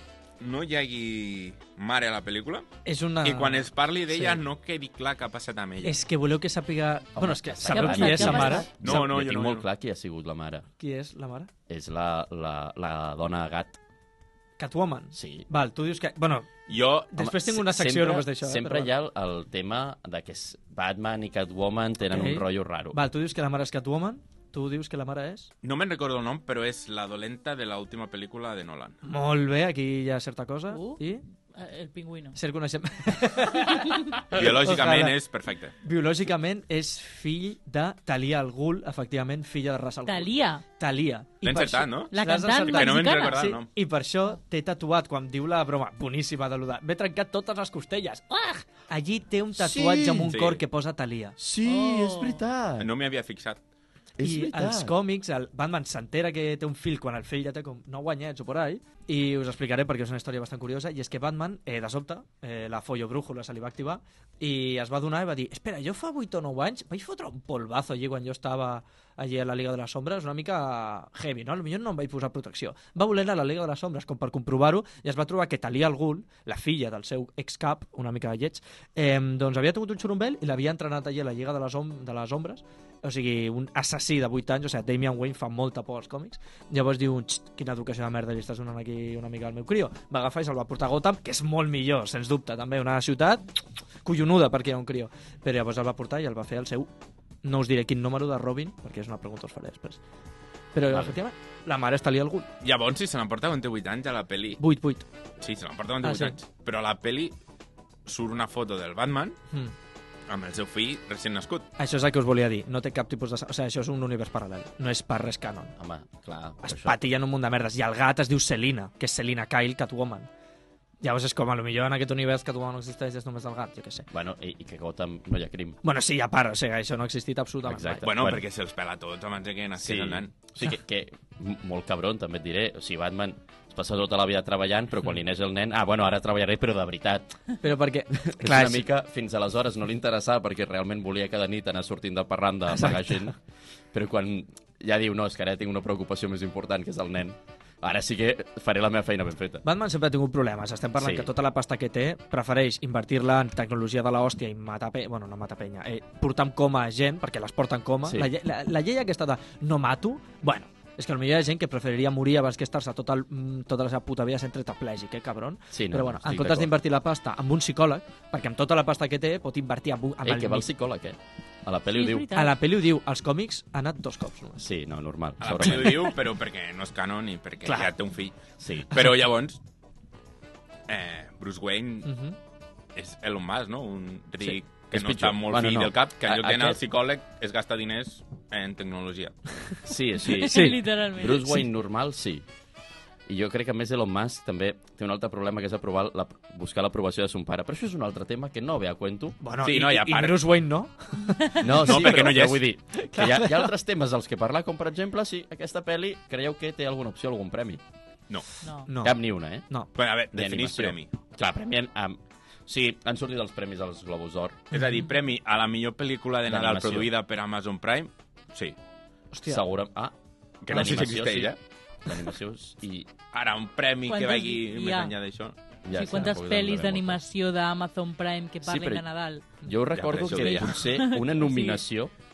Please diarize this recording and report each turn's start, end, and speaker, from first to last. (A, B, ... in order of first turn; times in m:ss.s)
0:00.4-0:02.7 A
0:02.8-0:04.4 B
0:03.2-0:06.0 A
0:05.8-0:09.0 B
0:07.2-0:10.7 C
0:07.6-0:08.7 D
0:08.8-0:09.7 A
0:10.8-0:11.5 B
0:11.7-0:13.8 C
0:14.6-0:18.9 B
0:15.1-0:15.5 C
0:16.7-0:17.2 A
0:17.2-0:23.0 C
0:22.1-0:25.5 B
0:25.6-0:29.0 A
0:29.0-0:31.2 B
0:30.7-0:32.4 D
0:32.4-0:35.2 B
0:34.3-0:35.7 A
0:35.8-0:51.4 B
0:40.1-0:40.6 D
0:41.4-0:43.7 A
0:42.1-0:43.6 D
0:49.6-0:50.4 C
0:50.3-0:50.6 A
0:51.4-0:52.9 C
0:51.6-0:52.4 D
0:52.8-0:53.6 A
0:54.2-0:55.0 C
0:54.2-1:33.5 B
1:34.0-1:36.9 B
1:37.4-1:40.0 B
1:40.7-1:42.5 B
1:42.6-1:44.6 A
1:44.6-1:45.1 B
1:45.4-1:47.4 A
1:46.0-1:46.4 B
1:48.1-1:49.4 A
1:50.3-1:51.7 A
1:51.8-1:55.8 B
1:55.8-1:57.0 C
1:56.6-2:00.3 B
2:01.0-2:04.1 B
2:04.1-2:05.8 C
2:05.8-2:08.1 B
2:07.6-2:08.4 C
2:08.0-2:10.3 A
2:09.8-2:17.4 C
2:17.6-2:18.9 B
2:18.2-2:23.4 C
2:22.7-2:23.3 B
2:23.9-2:29.6 C
2:29.6-2:50.7 B
2:31.0-2:31.3 C
2:38.0-2:38.3 C
2:45.7-2:46.7 C
2:50.2-2:52.3 C
2:51.9-2:52.5 D
2:52.3-2:54.6 B
2:54.6-2:56.1 C
2:55.4-2:59.6 A
2:57.6-2:57.9 B
2:58.6-2:59.0 C
3:00.9-3:02.1 A
3:02.0-3:02.4 B
3:03.0-3:09.5 A
3:04.4-3:06.8 C
3:09.8-3:12.4 C
3:10.3-3:11.6 D
3:10.4-3:10.8 B
3:13.3-3:19.4 C
3:19.4-3:22.3 B
3:19.6-3:20.4 A
3:21.6-3:27.8 C
3:21.7-3:22.7 A
3:22.9-3:23.7 B
3:28.6-3:28.9 D
3:28.8-3:29.9 B
3:29.0-3:29.7 C
3:30.0-3:31.1 A
3:30.3-3:34.6 C
3:34.7-3:38.8 A
3:34.8-3:35.0 B
3:36.5-3:37.1 C
3:39.3-3:39.6 B
3:39.4-3:40.1 C
3:40.6-3:41.6 A
3:40.7-3:43.1 C
3:43.3-3:45.6 A
3:44.1-3:45.2 D
3:45.8-3:47.2 C
3:45.9-3:49.4 D
3:48.6-3:52.1 C
3:49.9-3:50.9 A
3:50.6-3:51.8 D